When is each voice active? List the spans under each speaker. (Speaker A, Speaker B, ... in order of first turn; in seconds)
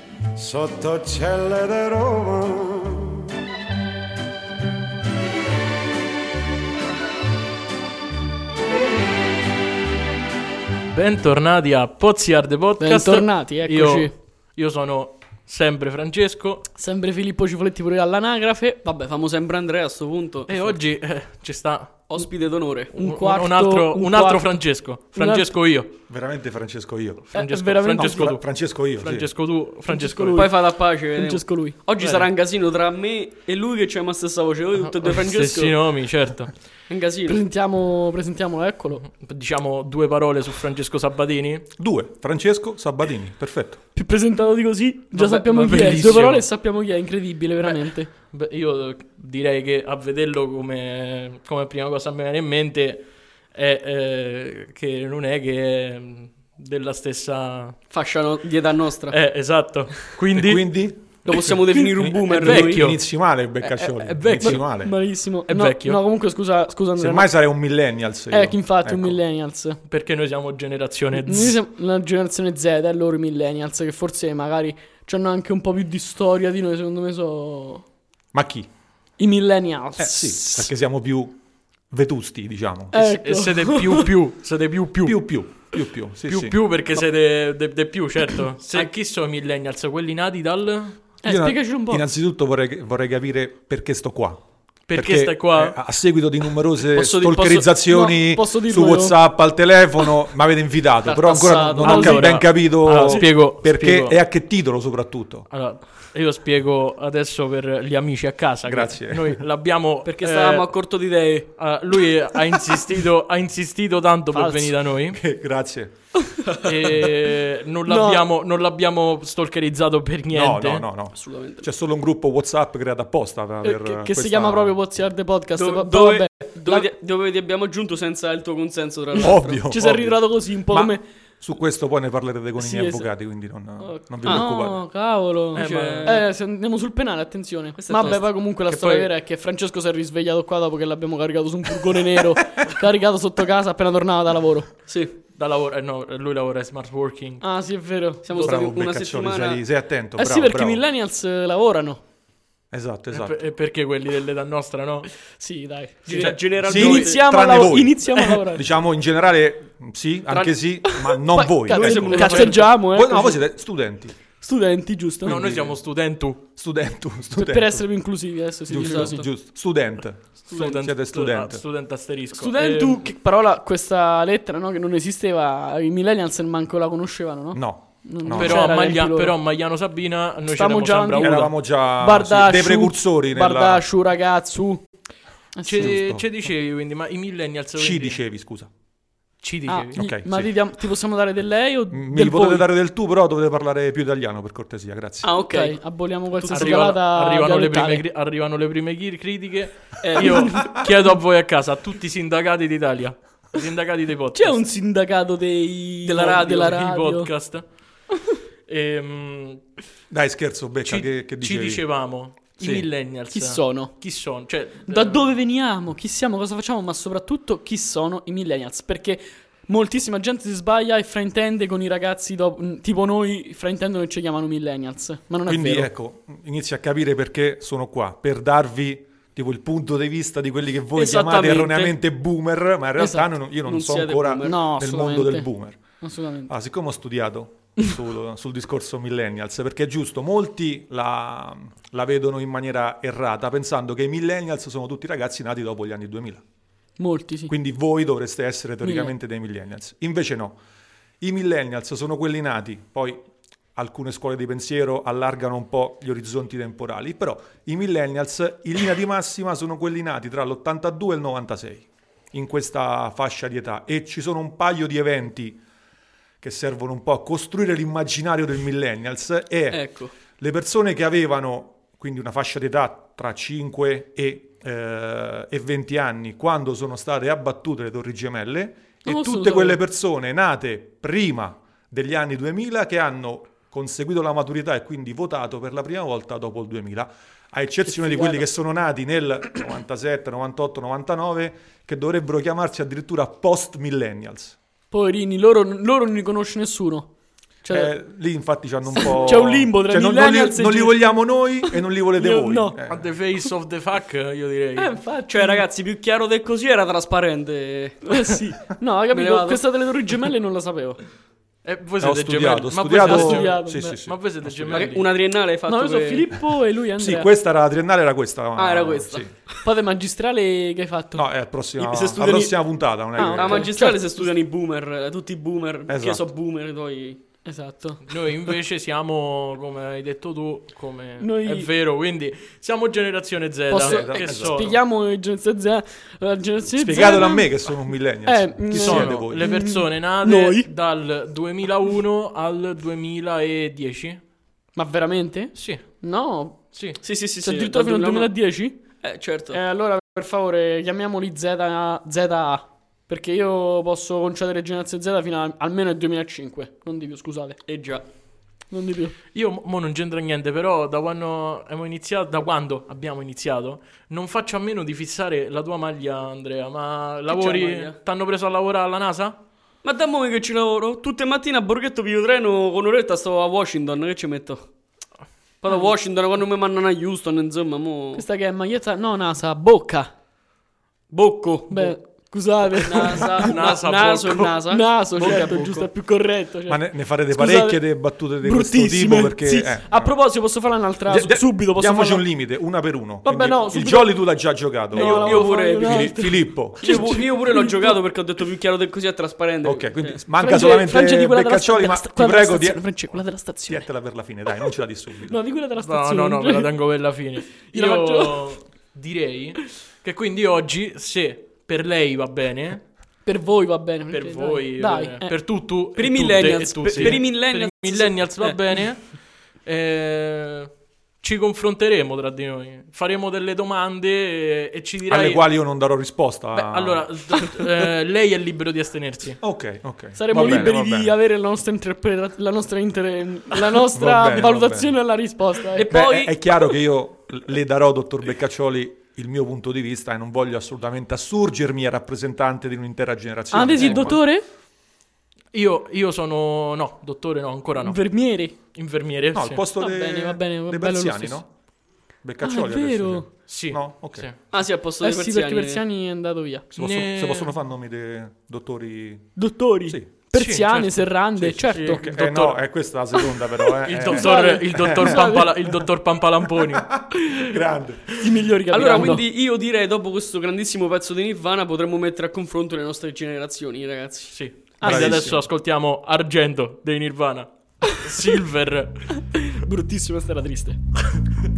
Speaker A: 0.3-3.2
Speaker B: 10.9-16.6, 20.5-22.1, 22.9-25.9, 27.3-30.5, 32.0-32.3, 34.9-36.5, 39.0-41.7, 45.1-46.5, 47.6-57.8, 59.1-63.0, 63.7-64.7, 65.5-66.0, 69.9-71.5, 82.9-85.2, 86.3-91.0, 94.9-95.8, 101.8-104.2, 105.5-110.7, 111.5-115.2, 116.6-120.9, 135.5-136.2, 145.3-147.4, 153.1-155.1, 156.1-157.1, 162.1-162.6, 165.2-166.4, 170.5-173.0, 178.3-181.5, 185.6-188.2, 189.4-190.0, 196.5-204.6, 206.2-207.7, 208.7-209.6, 210.8-215.3, 302.9-305.0, 311.6-315.1, 328.1-334.7, 338.7-344.2, 345.5-345.8, 346.7-347.0, 359.3-369.4, 383.4-384.6, 405.8-412.8, 414.1-420.7, 421.2-425.4, 426.5-429.4, 443.8-444.1, 445.5-448.0, 448.5-449.6, 453.5-454.4, 456.8-457.5, 460.3-461.1, 461.6-462.6, 463.8-466.9, 474.3-479.1
Speaker C: 12.8-14.1, 16.8-18.8, 22.9-24.5, 25.1-25.5, 27.3-28.3, 29.9-31.8, 37.2-39.0, 43.9-48.1, 64.4-67.3, 68.3-69.8, 71.2-77.8, 79.2-80.7, 82.9-84.1, 91.2-92.0, 97.0-99.2, 101.8-102.4, 114.3-114.7, 117.9-118.2, 123.6-126.8, 129.7-131.0, 132.6-133.1, 133.8-144.7, 147.4-148.3, 150.2-152.0, 155.4-158.6, 160.9-163.4, 164.4-165.3, 167.4-169.2, 172.3-179.3, 180.4-184.8, 185.6-185.9, 189.7-192.7, 195.5-198.0, 200.1-200.5, 204.3-207.3, 213.3-213.9, 214.9-225.9, 233.0-233.2, 234.4-236.5, 247.0-247.5, 248.8-249.1, 279.0-279.8, 287.9-288.4, 294.9-297.1, 297.6-297.9, 298.9-301.0, 302.1-302.8, 304.8-305.6, 308.1-311.0, 313.0-314.0, 315.6-317.3, 319.6-321.2, 323.1-324.3, 327.4-328.0, 331.2-331.7, 333.7-337.5, 338.2-340.7, 344.8-346.6, 347.4-348.8, 349.5-357.6, 358.7-359.1, 378.1-380.1, 381.7-383.5, 384.7-387.8, 388.4-392.2, 393.2-394.2, 394.9-398.0, 400.4-403.9, 405.3-406.7, 407.7-408.6, 413.2-415.3, 430.1-435.9, 443.5-444.4, 447.8-448.5, 449.8-451.4, 452.4-453.3, 455.0-456.6, 459.4-462.1, 464.1-465.5, 467.2-467.5, 468.2-469.2, 474.8-475.2, 479.2-480.8
Speaker D: 18.8-20.8, 22.1-22.9, 30.3-35.8, 36.9-37.4, 57.9-59.1, 61.2-62.9, 97.0-97.3, 101.0-102.1, 110.0-111.5, 121.2-121.7, 125.6-129.7, 135.5-136.2, 137.8-139.1, 144.9-145.1, 148.2-149.6, 156.1-157.2, 161.7-162.7, 195.2-195.8, 196.3-196.9, 200.0-200.5, 206.0-206.9, 230.9-231.9, 233.7-234.6, 269.7-270.1, 305.3-308.2, 309.1-309.6, 314.7-316.4, 318.6-319.2, 321.8-322.5, 323.2-327.2, 347.0-348.3, 349.0-349.6, 357.7-358.0, 367.3-367.9, 369.8-374.7, 375.6-378.2, 381.1-381.9, 382.7-385.8, 394.9-400.2, 416.0-418.6, 435.7-436.7, 454.5-455.8, 468.7-474.4
Speaker E: 26.1-27.3, 28.0-29.3, 41.8-43.8, 45.7-46.1, 60.3-64.9, 67.0-69.2, 78.3-78.7, 80.0-81.3, 81.9-82.9, 85.0-86.6, 91.2-94.4, 94.9-105.5, 108.7-109.4, 115.1-115.9, 120.3-124.8, 129.1-134.8, 148.3-150.8, 152.7-153.3, 156.6-164.1, 165.2-165.8, 166.6-167.8, 168.7-171.6, 177.5-178.7, 181.2-183.8, 185.8-186.2, 187.8-188.7, 189.9-190.5, 191.9-195.3, 210.1-211.8, 212.6-212.8, 225.4-235.8, 236.5-246.4, 247.5-250.6, 251.2-265.6, 266.4-269.8, 270.4-294.6, 297.7-303.1, 312.0-314.9, 317.0-319.3, 321.1-323.7, 325.9-326.2, 333.8-334.7, 336.8-339.5, 385.2-385.8, 386.7-390.1, 391.1-397.2, 399.6-402.8, 403.7-405.4, 425.1-427.1, 429.4-431.1, 433.9-434.9, 435.9-444.2, 449.3-451.5, 452.2-454.3, 456.7-460.1, 461.4-465.3, 466.5-468.2, 474.8-475.4